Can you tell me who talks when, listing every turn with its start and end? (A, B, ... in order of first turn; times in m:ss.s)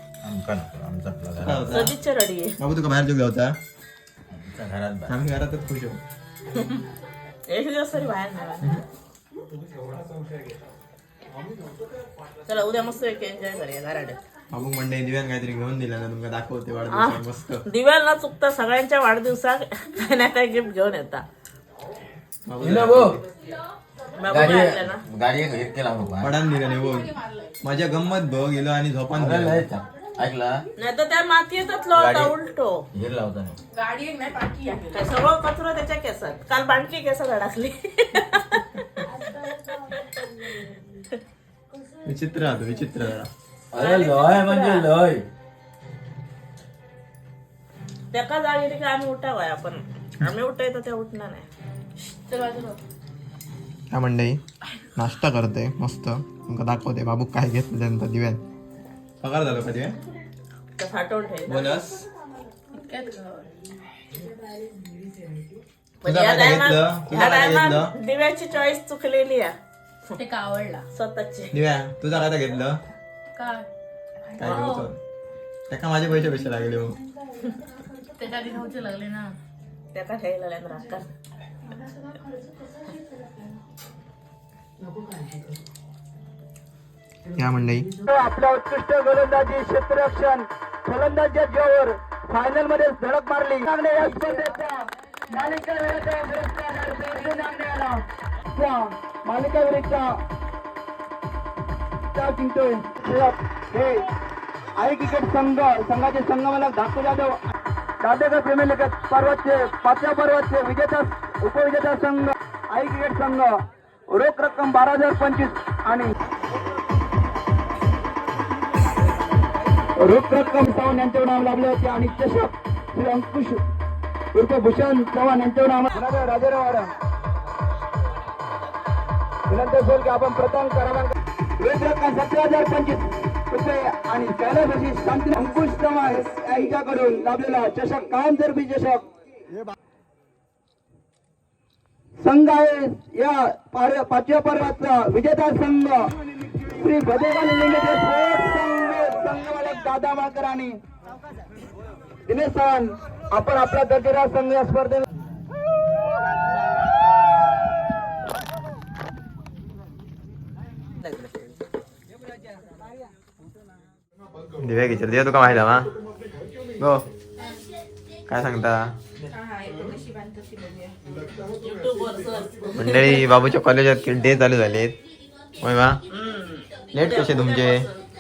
0:00.2-0:01.8 A
0:01.4-0:02.0 B
0:01.7-0:02.6 C
0:02.6-0:03.6 B
0:04.3-0:05.1 A
0:05.1-0:06.0 B
0:07.5-0:08.8 C
0:12.5-0:14.2 C
0:14.5-0:17.6 B
0:16.9-0:21.2 C
0:22.5-0:23.2 B
0:22.6-0:23.2 A
0:24.2-0:25.0 C
0:24.3-0:26.3 A
0:26.2-0:29.6 B
0:26.6-0:27.6 D
0:29.1-0:30.6 A
0:30.8-0:32.8 C
0:31.9-0:32.3 A
0:32.9-0:33.6 A
0:33.7-0:35.2 D
0:34.9-0:39.0 C
0:42.0-0:43.3 B
0:43.7-0:45.3 A
0:43.7-0:44.9 C
0:48.1-0:51.4 C
0:52.1-0:52.8 D
0:53.9-0:54.4 B
0:55.0-0:58.4 B
0:59.2-1:00.0 B
1:00.8-1:01.8 C
1:01.5-1:02.0 B
1:02.7-1:03.5 D
1:06.0-1:09.5 C
1:06.0-1:07.9 B
1:10.2-1:10.9 D
1:11.0-1:11.5 C
1:11.5-1:12.8 B
1:13.4-1:13.7 D
1:14.4-1:15.0 B
1:14.4-1:14.8 C
1:14.5-1:14.8 D
1:15.7-1:17.0 B
1:18.2-1:19.4 D
1:19.9-1:21.1 C
1:27.4-1:27.9 B
1:28.1-1:40.2 E
1:42.1-1:44.0 E
1:44.8-1:47.4 E
1:48.0-1:53.6 E
1:54.1-1:56.1 E
2:00.0-2:03.6 E
2:04.3-2:06.9 E
2:09.5-2:19.1 E
2:22.2-2:30.8 E
2:32.3-2:35.0 E
2:44.6-2:45.9 B
2:46.8-2:47.0 B
2:48.3-2:48.9 B
2:49.3-2:51.0 D
2:51.6-2:53.4 C
2:52.8-2:55.0 B
2:55.6-2:56.0 B
2:56.1-2:58.0 C
2:57.0-2:57.8 B